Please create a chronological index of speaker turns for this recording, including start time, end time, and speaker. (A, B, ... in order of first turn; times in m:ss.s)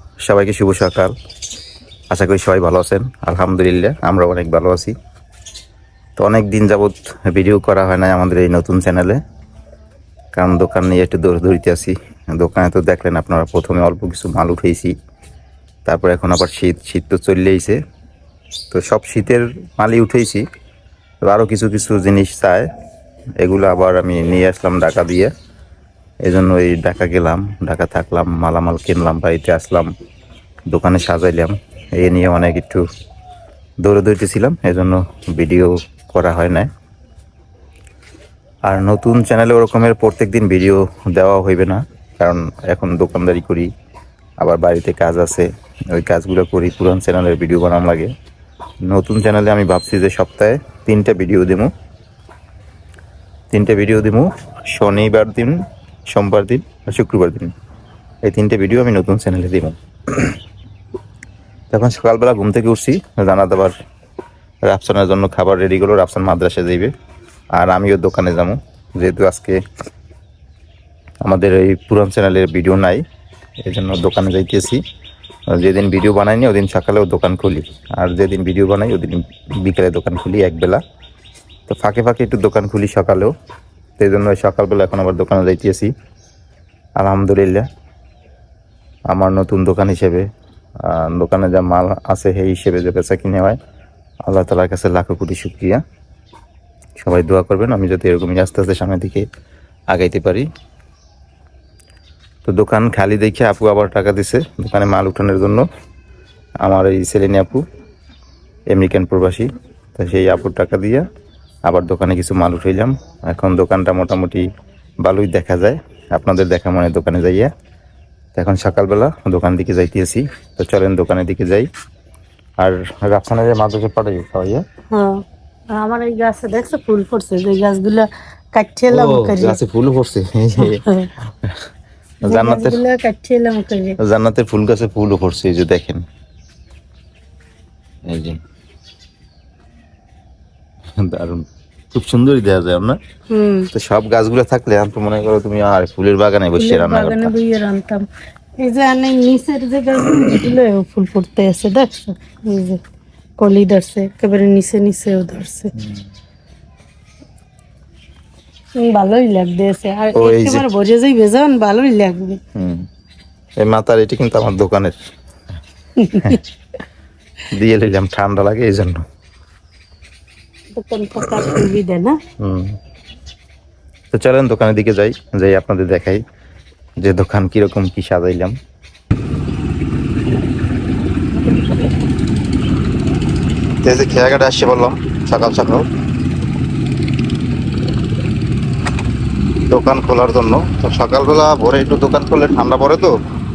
0:00.2-0:01.1 A
0:02.1-0:04.9 A
0:06.2-0:09.2 A
0:10.3-0:15.0 A
0:15.9-0:17.8 A
0:18.7-0:20.4 A
0:21.2-0:22.7 A
0:23.4-0:25.3 A
0:26.2-0:29.9 A
0:30.7-0:32.8 A
0:33.8-0:36.7 A
0:38.7-0:43.7 A
0:44.4-0:48.1 A
0:48.8-0:51.7 A
0:53.5-0:57.5 A
0:58.2-1:00.4 A
1:01.7-1:03.8 A
1:04.6-1:06.9 A
1:07.5-1:09.6 A
1:11.2-1:13.0 A
1:13.6-1:14.8 A
1:15.5-1:20.8 A
1:21.7-1:23.3 A
1:24.0-1:25.9 A
1:27.0-1:27.7 A
1:29.1-1:30.3 A
1:30.8-1:33.6 A
1:34.3-1:35.8 A
1:37.0-1:39.2 A
1:39.9-1:40.5 A
1:42.4-1:45.7 A
1:46.6-1:47.6 A
1:48.7-1:51.1 A
1:51.7-1:54.5 A
1:55.0-1:57.5 A
1:58.4-2:01.7 A
2:02.6-2:04.6 A
2:04.9-2:09.6 B
2:08.9-2:11.6 A
2:10.6-2:11.1 B
2:12.2-2:14.0 B
2:12.2-2:12.8 A
2:14.0-2:16.0 A
2:18.1-2:18.4 A
2:21.0-2:23.0 A
2:23.3-2:23.7 B
2:23.7-2:27.3 A
2:26.6-2:28.0 B
2:28.6-2:32.8 B
2:33.4-2:35.7 B
2:38.8-2:42.4 B
2:40.2-2:40.6 A
2:42.6-2:42.9 A
2:43.6-2:45.0 A
2:46.0-2:46.4 B
2:46.1-2:46.4 A
2:47.5-2:49.0 A
2:50.7-2:52.2 B
2:52.4-2:52.8 A
2:54.1-2:56.2 A
2:57.0-2:58.6 A
3:03.8-3:05.9 A
3:09.7-3:13.1 A